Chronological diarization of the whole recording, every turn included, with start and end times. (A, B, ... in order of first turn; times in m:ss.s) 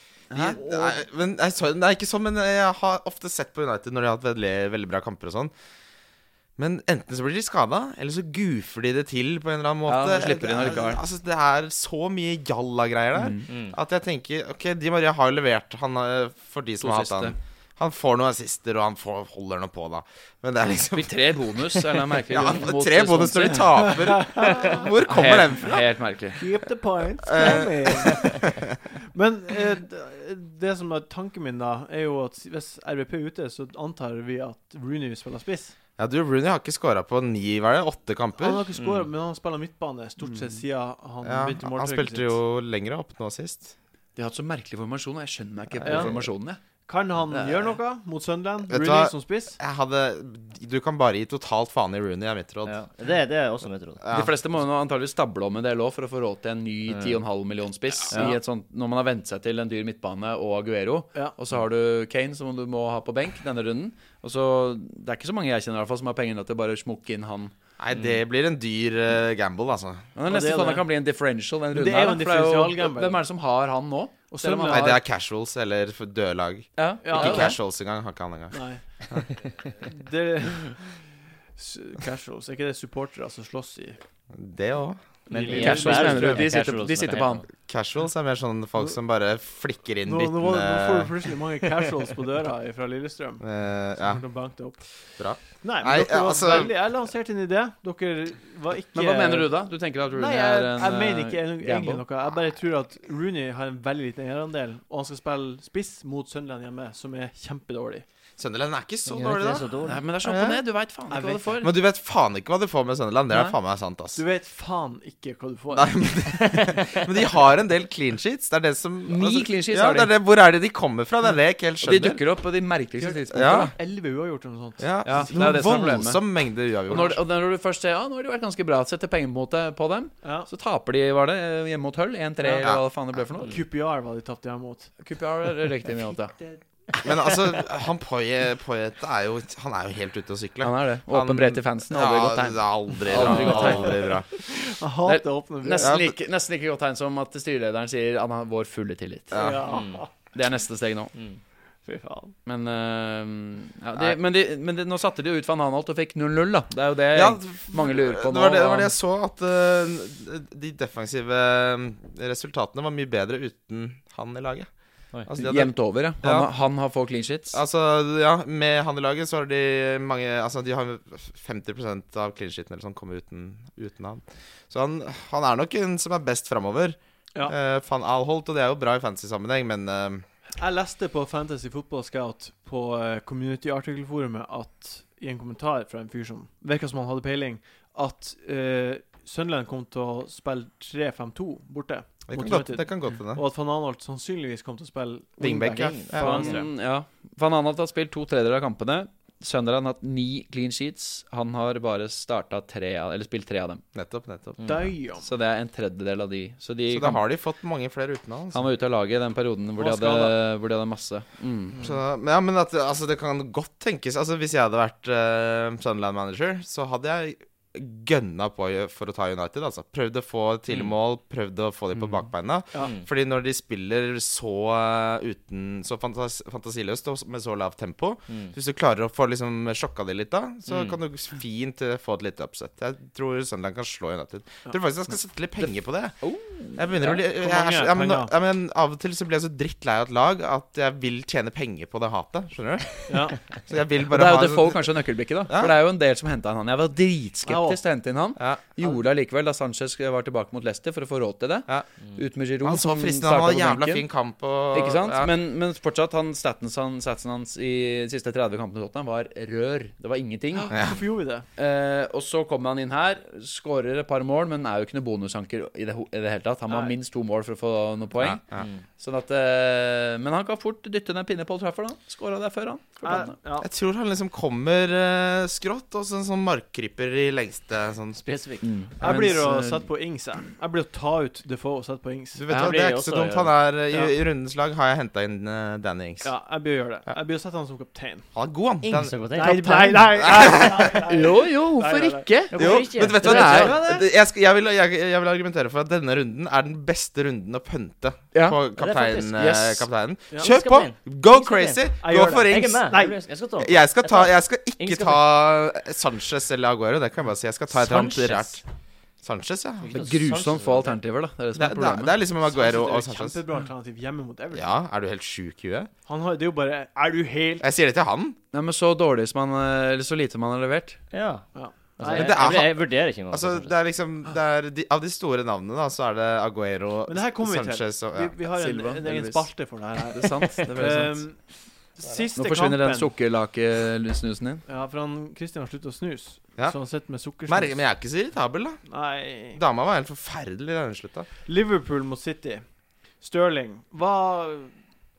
0:00.3-0:01.0 A
0:00.3-0:05.5 B
0:06.6-0:25.9 B
0:09.9-0:11.0 A
0:13.2-0:13.4 A
0:13.5-0:13.8 C
0:16.8-0:17.4 A
0:20.7-0:24.0 A
0:24.1-0:24.8 D
0:25.1-0:26.4 A
0:26.4-0:28.5 D
0:27.2-0:28.7 B
0:29.1-0:35.7 D
0:36.0-0:38.6 B
0:38.4-0:42.4 D
0:38.8-0:39.1 C
0:41.2-0:43.7 B
0:44.2-0:46.6 A
0:45.8-0:46.2 B
0:45.8-0:46.2 D
0:46.8-0:49.6 D
0:47.3-0:47.7 A
0:48.7-0:52.8 B
0:52.7-0:54.0 C
0:54.0-0:54.4 B
0:54.1-1:07.5 A
0:56.9-0:57.2 C
0:58.1-0:58.4 C
1:07.8-1:10.1 B
1:07.9-1:08.2 C
1:10.2-1:15.0 A
1:10.3-1:10.9 D
1:11.7-1:13.2 D
1:14.3-1:14.9 D
1:14.7-1:19.3 B
1:16.8-1:17.6 A
1:17.0-1:17.6 D
1:18.5-1:18.8 D
1:19.8-1:24.0 D
1:24.3-1:25.0 B
1:25.3-1:26.5 D
1:25.3-1:27.5 C
1:25.5-1:27.5 A
1:27.6-1:31.1 B
1:30.0-1:33.4 D
1:33.4-1:34.2 B
1:34.0-1:34.8 D
1:35.2-1:36.7 B
1:35.4-1:39.6 D
1:39.0-1:42.0 A
1:40.1-1:48.0 D
1:48.4-1:49.7 B
1:49.1-1:50.0 C
1:49.8-1:51.7 A
1:50.2-1:50.6 B
1:51.1-1:51.6 D
1:51.6-1:54.2 B
1:54.2-1:56.1 D
1:55.7-2:02.2 B
1:56.5-1:57.0 C
1:59.1-2:00.1 A
2:01.8-2:03.8 A
2:03.0-2:05.6 D
2:03.3-2:03.7 B
2:04.8-2:07.2 B
2:05.0-2:06.2 A
2:06.9-2:13.6 A
2:06.9-2:07.2 D
2:10.2-2:10.5 D
2:12.4-2:12.7 D
2:12.6-2:12.9 B
2:13.4-2:14.9 D
2:15.0-2:16.4 A
2:17.0-2:24.3 B
2:20.6-2:24.1 A
2:23.2-2:23.9 C
2:23.2-2:26.0 D
2:25.1-2:29.4 A
2:25.8-2:26.1 B
2:29.3-2:29.6 B
2:29.3-2:30.1 D
2:29.7-2:30.0 C
2:30.3-2:31.1 A
2:31.1-2:31.4 C
2:31.8-2:32.4 D
2:32.4-2:38.9 A
2:37.1-2:44.7 B
2:45.3-2:46.5 B
2:45.4-2:47.6 A
2:47.5-3:00.3 B
3:00.6-3:16.7 D
3:12.3-3:13.4 B
3:15.4-3:16.6 B
3:15.8-3:16.6 C
3:16.1-3:23.8 A
3:23.9-3:24.6 B
3:24.6-3:24.9 C
3:24.6-3:25.3 D
3:25.2-3:27.2 A
3:26.9-3:28.7 B
3:28.5-3:31.8 A
3:29.8-3:30.4 D
3:31.8-3:56.2 B
3:42.8-3:43.0 C
3:48.3-3:48.5 C
3:50.7-3:51.0 C
3:56.2-3:56.9 A
3:56.8-4:04.9 B
3:57.0-3:58.3 D
4:03.1-4:03.4 D
4:04.1-4:14.0 A
4:05.5-4:05.8 B
4:07.4-4:07.8 D
4:08.4-4:08.6 B
4:12.6-4:15.3 B
4:14.7-4:20.8 A
4:20.6-4:21.5 D
4:20.7-4:21.0 B
4:21.6-4:28.4 A
4:26.7-4:27.0 D
4:28.2-4:28.7 B
4:28.6-4:28.8 C
4:29.0-4:33.4 A
4:33.0-4:33.7 D
4:33.6-4:38.2 B
4:38.2-4:38.7 C
4:38.6-4:39.9 A
4:39.0-4:42.4 D
4:42.4-4:46.3 B
4:42.5-4:42.8 A
4:42.5-4:43.5 C
4:46.2-4:48.3 D
4:48.3-4:49.2 B
4:48.8-4:50.8 C
4:49.4-4:52.3 D
4:50.2-4:51.0 B
4:51.0-4:53.8 A
4:52.5-4:53.8 C
4:52.6-5:02.8 B
4:53.2-4:54.1 D
4:58.3-4:58.6 A
4:58.8-4:59.4 C
4:59.4-4:59.9 A
5:00.4-5:05.2 C
5:02.0-5:03.2 D
5:03.6-5:08.6 B
5:08.0-5:08.5 A
5:09.2-5:10.0 B
5:09.8-5:11.0 C
5:09.9-5:12.2 A
5:11.6-5:13.4 B
5:12.5-5:14.7 D
5:14.5-5:15.9 B
5:16.1-5:17.7 D
5:17.6-5:18.4 B
5:18.5-5:21.0 A
5:21.1-5:21.5 C
5:21.5-5:22.4 D
5:22.0-5:23.8 C
5:22.1-5:28.4 B
5:27.1-5:31.4 D
5:28.6-5:29.5 A
5:30.1-5:31.2 A
5:32.0-5:33.1 D
5:32.4-5:34.6 A
5:34.7-5:37.8 D
5:37.5-5:38.8 B
5:38.9-5:39.6 D
5:39.6-5:41.3 B
5:41.5-5:42.6 D
5:43.2-5:44.7 D